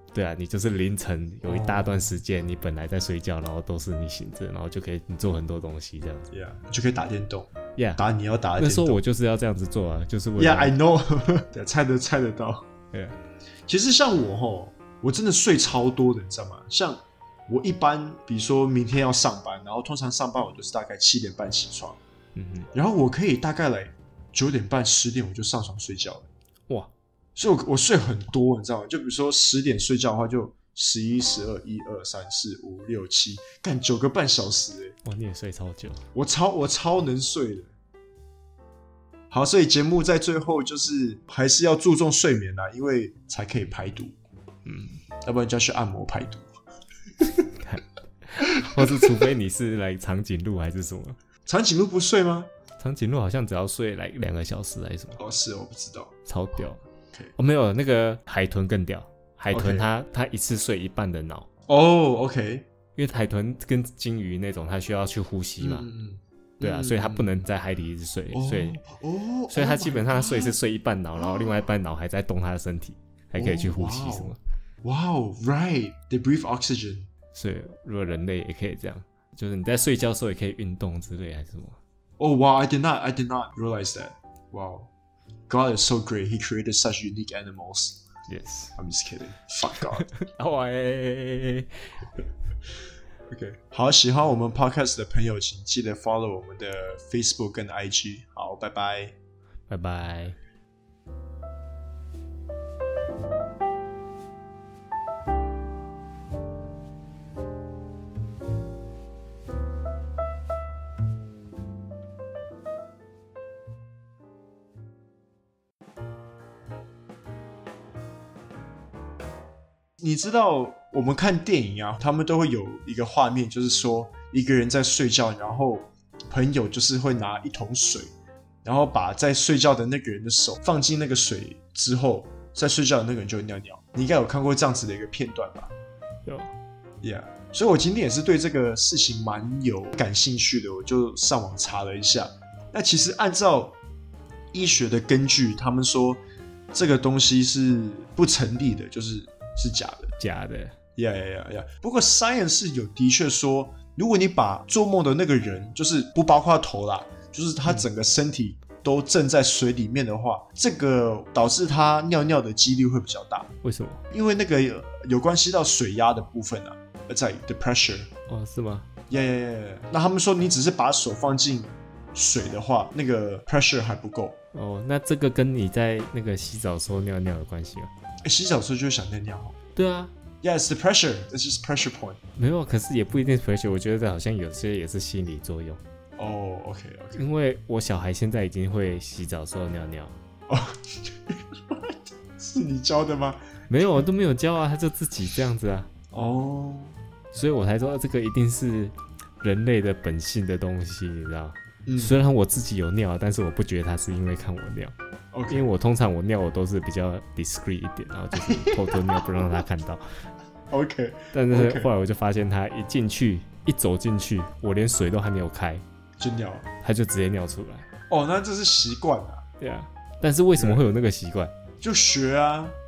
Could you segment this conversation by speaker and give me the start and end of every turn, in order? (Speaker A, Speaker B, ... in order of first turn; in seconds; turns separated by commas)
Speaker A: 0.1-6.3, Speaker B: 1.5-2.0, Speaker B: 6.3-9.0, Speaker A: 8.6-10.8, Speaker B: 10.4-12.7, Speaker A: 12.9-13.2, Speaker B: 13.7-22.0, Speaker A: 22.4-22.7, Speaker B: 22.7-26.3, Speaker B: 27.4-35.0, Speaker A: 35.0-36.0, Speaker B: 36.1-37.7, Speaker B: 39.3-44.2, Speaker A: 44.7-45.0, Speaker B: 45.2-46.5, Speaker B: 47.2-47.5, Speaker A: 47.6-51.2, Speaker B: 48.6-49.1, Speaker B: 51.5-52.5, Speaker A: 52.8-55.2, Speaker B: 55.2-56.1, Speaker A: 56.3-56.8, Speaker A: 57.4-61.5, Speaker B: 59.5-59.9, Speaker B: 61.7-62.7, Speaker A: 63.0-65.9, Speaker B: 65.6-67.3, Speaker A: 66.6-68.8, Speaker B: 68.3-70.6, Speaker A: 69.5-74.4, Speaker B: 71.2-71.6, Speaker B: 73.4-77.1, Speaker A: 77.3-81.8, Speaker B: 82.2-84.9, Speaker B: 85.5-88.0, Speaker A: 88.3-88.8, Speaker B: 88.8-90.1, Speaker A: 90.0-92.0, Speaker B: 93.3-99.2, Speaker A: 99.7-100.4, Speaker B: 120.0-128.1, Speaker B: 128.6-135.7, Speaker B: 137.0-143.8, Speaker B: 144.5-146.2, Speaker B: 146.7-150.2, Speaker A: 150.2-150.8, Speaker B: 151.0-163.5, Speaker A: 163.6-164.0, Speaker B: 164.1-168.1, Speaker A: 168.3-168.9, Speaker B: 169.1-174.4, Speaker A: 174.5-177.9, Speaker B: 178.2-179.6, Speaker A: 179.8-180.1, Speaker B: 180.4-182.2, Speaker A: 182.4-185.8, Speaker B: 186.2-187.2, Speaker A: 187.2-190.2, Speaker B: 190.5-193.4, Speaker A: 193.7-195.9, Speaker B: 196.1-197.0, Speaker A: 197.3-204.9, Speaker B: 201.9-202.2, Speaker B: 205.3-205.7, Speaker A: 205.5-210.0, Speaker B: 208.3-209.2, Speaker B: 210.7-211.9, Speaker A: 211.3-215.8, Speaker B: 216.2-216.7, Speaker A: 216.8-217.9, Speaker B: 218.1-219.4, Speaker A: 219.6-221.5, Speaker B: 220.6-220.8, Speaker B: 221.8-222.8